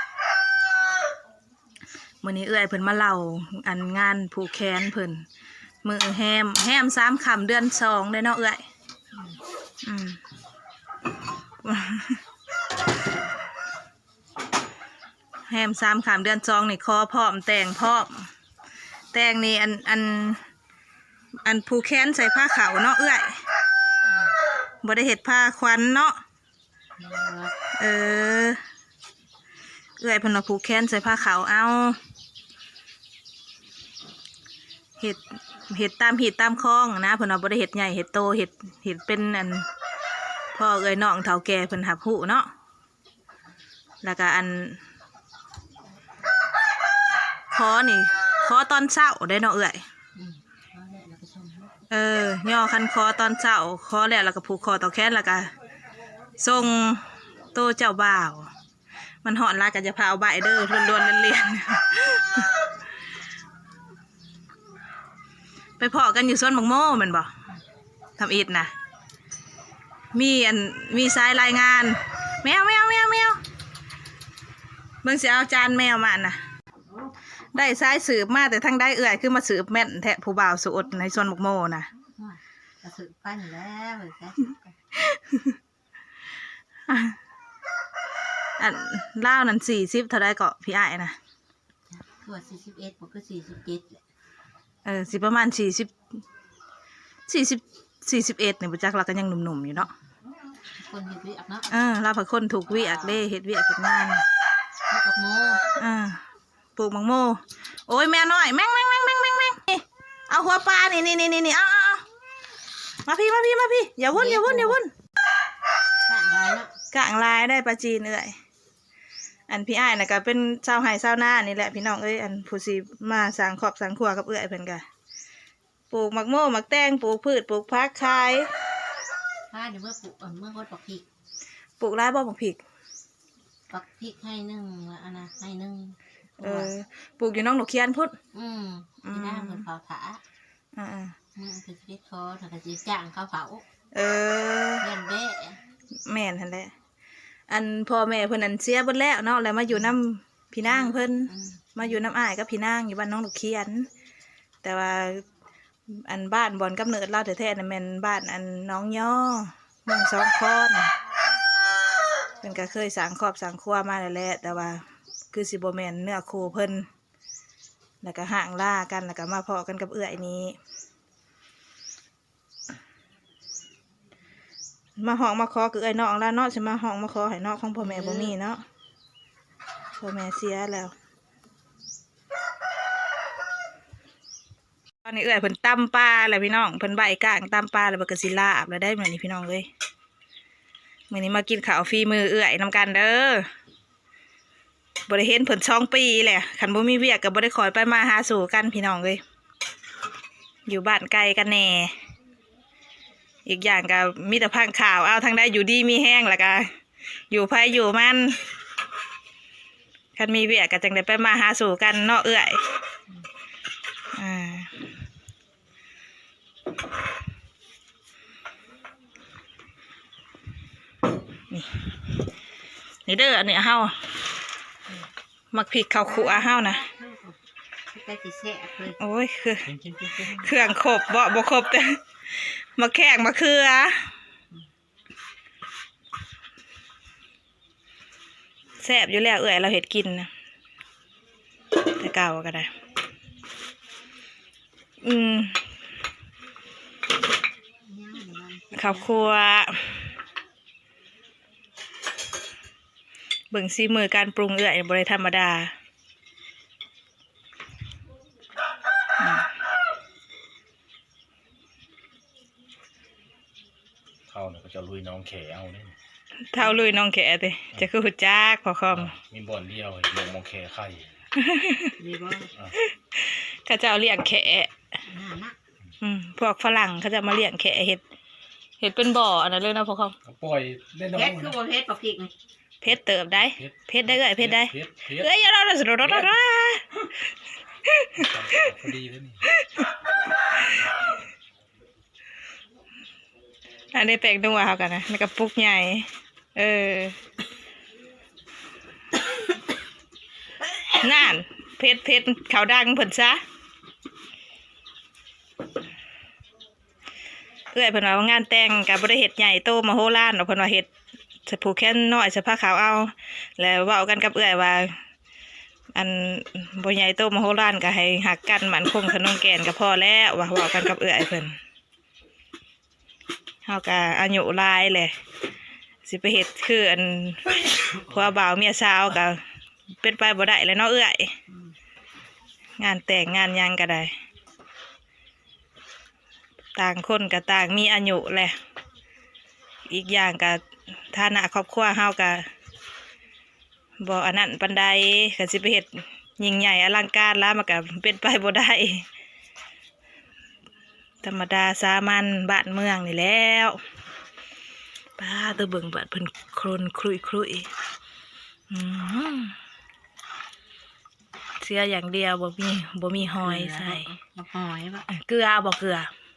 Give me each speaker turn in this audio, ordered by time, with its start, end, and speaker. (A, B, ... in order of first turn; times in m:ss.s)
0:02.2-0:05.3 A
0:05.8-0:08.6 A
0:09.8-0:10.2 A
0:11.6-0:12.2 A
0:15.5-0:18.3 A
0:19.1-0:20.4 A
0:21.4-0:23.4 A
0:24.8-0:26.2 A
0:27.0-0:27.5 B
0:27.8-0:28.6 A
0:30.0-0:32.0 A
0:35.0-0:39.7 A
0:40.5-0:42.5 A
0:44.0-0:44.8 A
0:47.5-0:49.8 A
0:50.2-0:51.7 B
0:51.9-0:55.5 A
0:56.4-0:58.5 A
0:59.2-1:02.5 A
1:05.8-1:07.3 A
1:08.2-1:08.7 A
1:10.1-1:13.4 A
1:15.0-1:16.4 A
1:17.6-1:21.9 A
1:22.0-1:24.7 B
1:25.1-1:25.4 A
1:26.9-1:27.2 A
1:28.6-1:31.2 A
1:31.9-1:34.0 B
1:34.8-1:35.9 A
1:37.3-1:39.9 A
1:40.8-1:41.7 B
1:41.7-1:44.2 A
1:42.8-1:43.2 B
1:44.9-1:45.6 B
1:45.8-1:46.2 A
1:46.8-1:52.0 A
1:53.0-1:54.9 A
1:54.1-1:54.8 B
1:56.1-1:56.7 B
1:56.9-1:58.3 A
1:59.5-2:04.8 A
2:05.9-2:08.5 A
2:09.5-2:11.0 B
2:11.8-2:12.6 A
2:13.7-2:16.7 B
2:16.4-2:18.2 A
2:18.3-2:20.2 B
2:19.0-2:19.6 A
2:20.8-2:21.2 A
2:21.4-2:23.6 B
2:23.9-2:24.8 A
2:24.8-2:25.6 B
2:26.1-2:26.7 A
2:27.5-2:33.9 A
2:31.3-2:31.6 B
2:34.6-2:35.2 A
2:35.9-2:40.9 A
2:42.4-2:46.9 A
2:48.0-2:50.6 A
2:55.0-2:58.6 A
2:57.8-2:58.3 B
3:00.0-3:00.9 A
3:05.0-3:09.7 A
3:11.1-3:13.4 A
3:15.1-3:19.2 A
3:20.7-3:21.9 A
3:23.5-3:26.7 A
3:27.3-3:28.4 A
3:30.2-3:32.6 A
3:34.1-3:34.7 A
3:41.5-3:41.8 A
3:43.1-3:44.0 A
3:45.5-3:46.8 A
3:46.1-3:47.4 B
3:47.9-3:49.0 B
3:49.0-3:49.7 A
3:49.7-3:50.3 C
3:50.0-3:50.3 B
3:50.3-3:52.0 A
3:52.8-3:54.0 A
3:58.8-4:00.3 A
4:01.9-4:02.7 A
4:05.0-4:05.6 A
4:07.9-4:09.1 B
4:08.7-4:10.0 A
4:13.5-4:15.7 A
4:24.3-4:26.0 C
4:26.5-4:29.2 A
4:28.9-4:31.1 C
4:31.4-4:32.0 A
4:32.0-4:32.5 B
4:32.8-4:34.7 A
4:35.1-4:35.6 B
4:36.0-4:38.0 A
4:38.8-4:40.2 A
4:40.2-4:41.6 C
4:41.1-4:42.3 B
4:42.8-4:46.9 A
4:43.5-4:45.3 C
4:46.0-4:46.3 C
4:47.9-4:48.2 A
4:48.2-4:49.4 C
4:53.9-4:57.2 A
5:00.9-5:03.4 A
5:07.7-5:10.9 A
5:11.5-5:15.0 A
5:16.0-5:21.6 A
5:23.7-5:25.1 A
5:26.1-5:29.4 A
5:30.0-5:31.3 A
5:32.8-5:34.1 A
5:36.8-5:38.6 A
5:39.9-5:42.5 A
5:44.0-5:49.0 A
5:51.2-5:53.8 A
5:55.2-5:57.7 A
5:58.7-5:59.6 A
6:01.6-6:04.1 A
6:03.4-6:05.1 B
6:05.1-6:06.1 A